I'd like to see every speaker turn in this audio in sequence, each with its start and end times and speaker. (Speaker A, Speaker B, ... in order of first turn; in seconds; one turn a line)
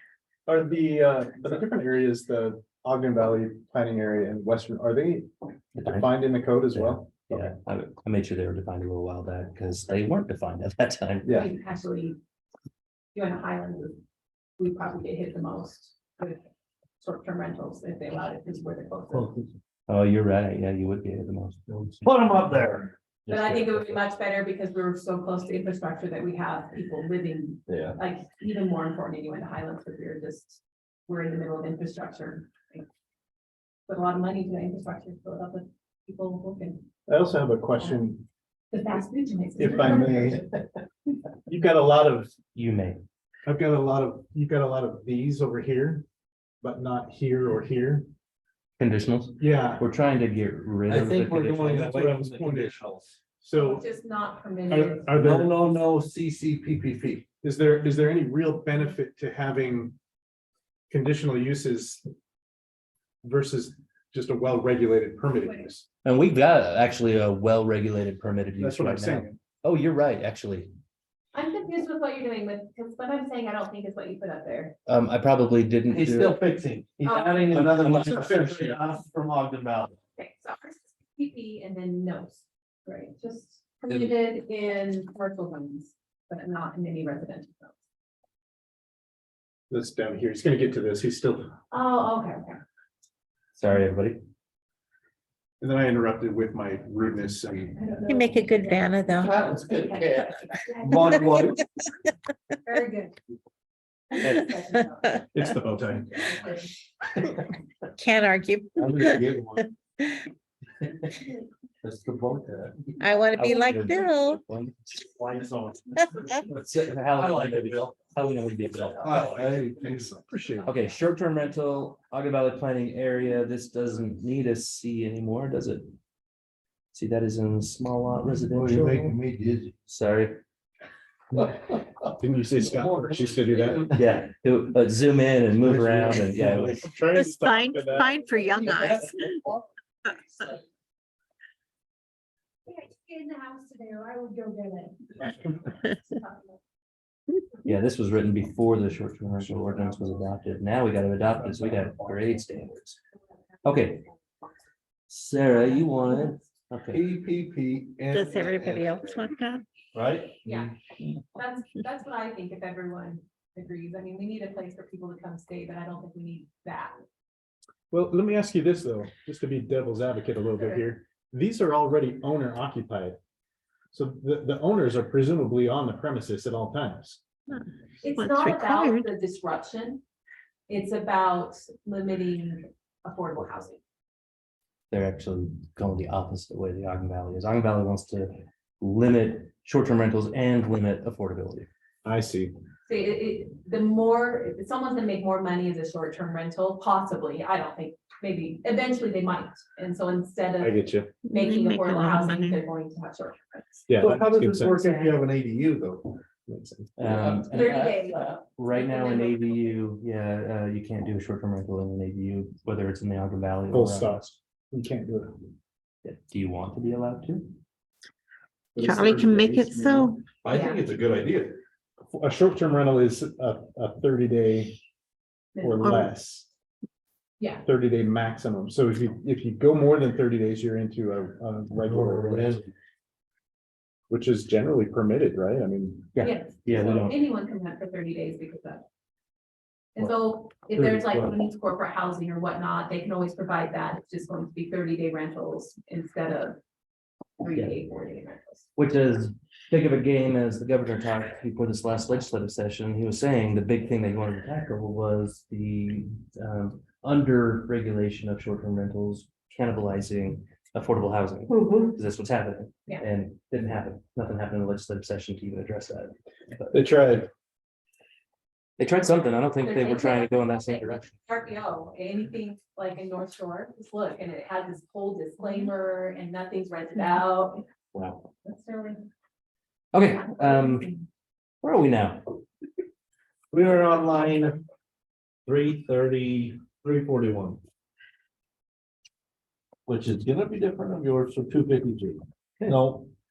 Speaker A: 0.5-7.5
Speaker B: 5.8-11.3
Speaker C: 11.3-12.2
Speaker C: 13.1-14.0
Speaker C: 14.6-16.4
Speaker C: 17.0-19.3
Speaker D: 19.1-19.5
Speaker B: 19.9-22.0
Speaker D: 22.0-22.9
Speaker B: 23.2-24.0
Speaker C: 23.3-32.9
Speaker D: 27.7-27.9
Speaker C: 33.9-36.8
Speaker A: 37.1-38.2
Speaker C: 38.7-40.4
Speaker A: 39.6-40.5
Speaker A: 41.4-42.3
Speaker B: 42.5-43.0
Speaker A: 43.5-46.0
Speaker A: 46.6-48.1
Speaker B: 48.8-52.0
Speaker A: 49.4-49.9
Speaker D: 50.9-53.1
Speaker A: 51.8-52.8
Speaker A: 53.4-53.9
Speaker C: 53.5-55.1
Speaker A: 54.7-55.5
Speaker D: 55.1-57.2
Speaker A: 57.4-60.0
Speaker A: 60.9-62.1
Speaker A: 63.2-65.8
Speaker B: 66.0-70.7
Speaker A: 68.6-69.4
Speaker C: 71.3-74.8
Speaker B: 74.9-76.3
Speaker D: 75.9-80.0
Speaker C: 77.0-77.5
Speaker B: 77.5-78.8
Speaker A: 78.0-78.2
Speaker C: 80.2-87.7
Speaker A: 89.7-91.5
Speaker C: 91.7-92.6
Speaker B: 93.5-94.2
Speaker A: 95.6-97.8
Speaker C: 97.7-101.6
Speaker E: 98.1-99.3
Speaker D: 99.1-101.6
Speaker C: 102.6-103.2
Speaker C: 104.1-106.7
Speaker A: 105.3-106.2
Speaker E: 108.0-109.2
Speaker D: 108.8-109.7
Speaker D: 111.8-113.0
Speaker E: 113.0-114.4
Speaker B: 113.3-114.7
Speaker D: 115.2-115.8
Speaker B: 116.5-119.2
Speaker D: 117.2-117.9
Speaker D: 119.0-120.1
Speaker A: 119.1-120.7
Speaker B: 120.6-125.9
Speaker B: 126.9-129.2
Speaker A: 128.6-129.1
Speaker D: 128.6-129.7
Speaker B: 129.9-130.4
Speaker D: 131.4-134.0
Speaker A: 132.2-133.8
Speaker B: 133.9-136.9
Speaker D: 135.6-136.9
Speaker A: 136.8-138.1
Speaker E: 137.1-139.3
Speaker D: 138.6-139.1
Speaker C: 142.7-146.6
Speaker B: 147.6-153.0
Speaker B: 153.6-154.0
Speaker B: 155.1-157.0
Speaker D: 156.9-159.1
Speaker E: 158.1-159.6
Speaker D: 159.9-160.7
Speaker C: 160.4-160.7
Speaker C: 161.3-166.9
Speaker A: 167.9-173.2
Speaker A: 173.9-177.2
Speaker C: 178.0-180.0
Speaker E: 178.2-179.1
Speaker C: 180.7-183.8
Speaker B: 184.9-191.7
Speaker A: 192.0-192.5
Speaker C: 192.9-203.9
Speaker A: 200.6-201.1
Speaker E: 201.3-202.6
Speaker A: 203.9-204.8
Speaker D: 204.0-206.2
Speaker A: 206.5-206.8
Speaker D: 207.0-208.4
Speaker B: 207.0-214.3
Speaker C: 207.5-209.7
Speaker A: 213.7-215.5
Speaker B: 216.0-217.6
Speaker A: 218.7-220.2
Speaker E: 218.8-220.2
Speaker D: 220.4-221.6
Speaker C: 220.5-220.8
Speaker A: 222.1-224.8
Speaker C: 225.5-225.8
Speaker A: 225.6-226.5
Speaker E: 225.8-226.1
Speaker C: 227.4-227.6
Speaker A: 227.6-232.6
Speaker D: 231.8-232.7
Speaker A: 234.1-236.1
Speaker B: 236.2-237.2
Speaker C: 236.2-238.8
Speaker C: 239.9-246.6
Speaker B: 240.7-241.3
Speaker C: 247.4-248.7
Speaker B: 248.8-266.7
Speaker D: 261.5-261.9
Speaker A: 266.7-267.3
Speaker B: 268.8-271.2
Speaker C: 269.6-277.6
Speaker B: 277.9-278.2
Speaker C: 278.4-279.1
Speaker B: 279.9-280.9
Speaker C: 280.3-280.9
Speaker B: 281.6-282.2
Speaker D: 283.5-284.6
Speaker D: 285.4-287.6
Speaker D: 289.9-293.1